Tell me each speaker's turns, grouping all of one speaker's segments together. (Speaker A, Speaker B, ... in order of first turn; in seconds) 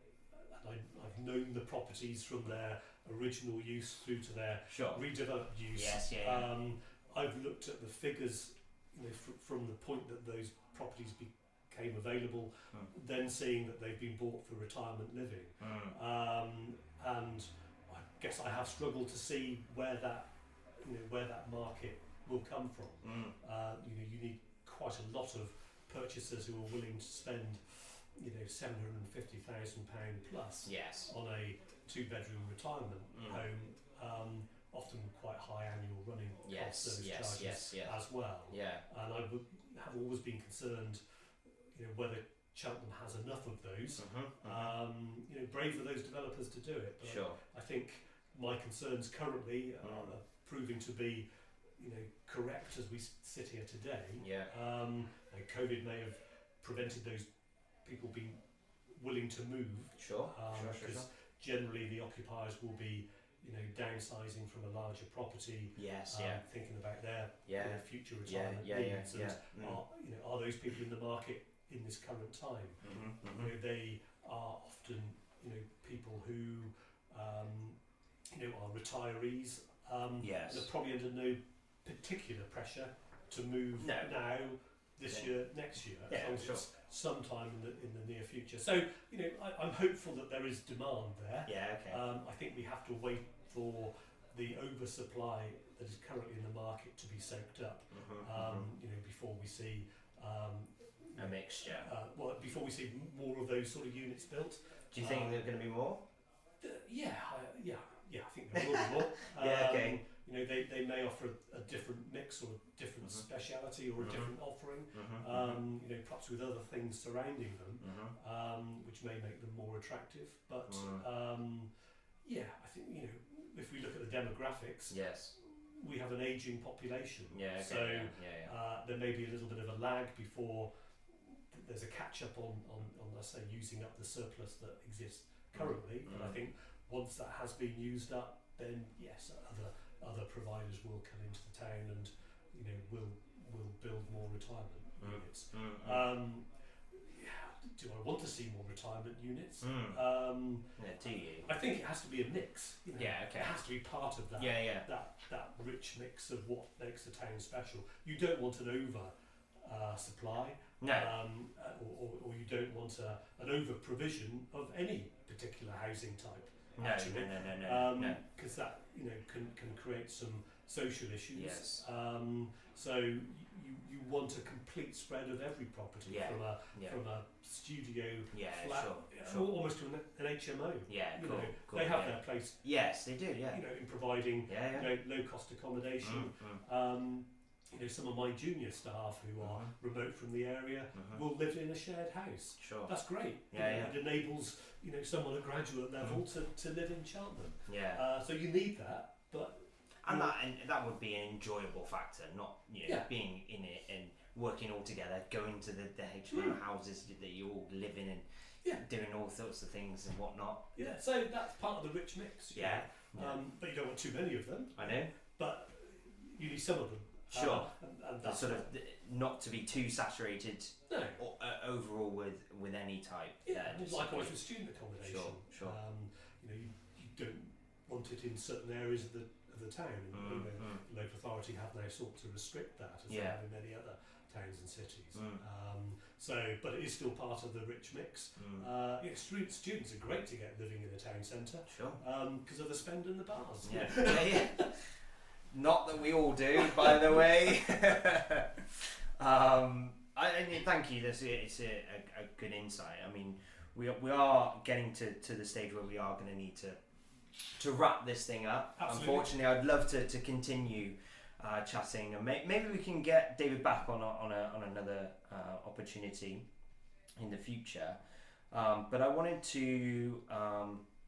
Speaker A: 0.3-41.0, 41.7-51.2, 51.8-57.3, 57.8-58.4, 58.9-77.8, 78.3-105.4, 106.6-121.7, 122.2-150.8, 151.4-182.6, 183.5-200.3, 202.8-203.1, 206.3-206.6, 210.7-218.7, 220.9-221.2, 223.4-244.7, 258.8-259.3
Speaker B: 4.7-5.0, 5.7-6.5, 15.6-15.9, 23.0-23.3, 30.6-31.1, 33.1-33.4, 36.5-38.0, 38.5-38.8, 44.0-44.7, 47.0-47.4, 49.8-50.1, 54.2-54.5, 60.0-61.1, 65.8-66.4, 67.5-69.8, 72.8-73.5, 80.2-80.7, 83.8-84.1, 86.1-86.7, 91.5-92.0, 97.9-98.7, 101.2-101.9, 104.9-106.0, 108.6-110.0, 114.0-114.3, 114.9-115.6, 117.8-118.1, 120.7-121.0, 124.9-125.3, 127.3-128.5, 135.5-136.3, 145.0-146.1, 149.6-150.0, 150.8-151.5, 152.9-153.6, 154.3-154.9, 160.8-161.1, 166.8-168.2, 171.3-171.8, 176.1-177.0, 178.3-179.5, 180.9-183.6, 184.5-184.9, 186.0-186.6, 189.4-189.7, 190.9-191.2, 192.6-192.9, 193.5-193.9, 197.7-198.0, 200.0-210.9, 212.5-213.4, 214.8-215.1, 217.3-217.7, 218.2-224.3, 225.0-225.8, 230.1-230.8, 233.1-233.4, 235.1-235.4, 238.4-238.6, 241.7-242.0, 243.6-244.8, 245.5-256.8, 257.6-266.4, 267.2-270.8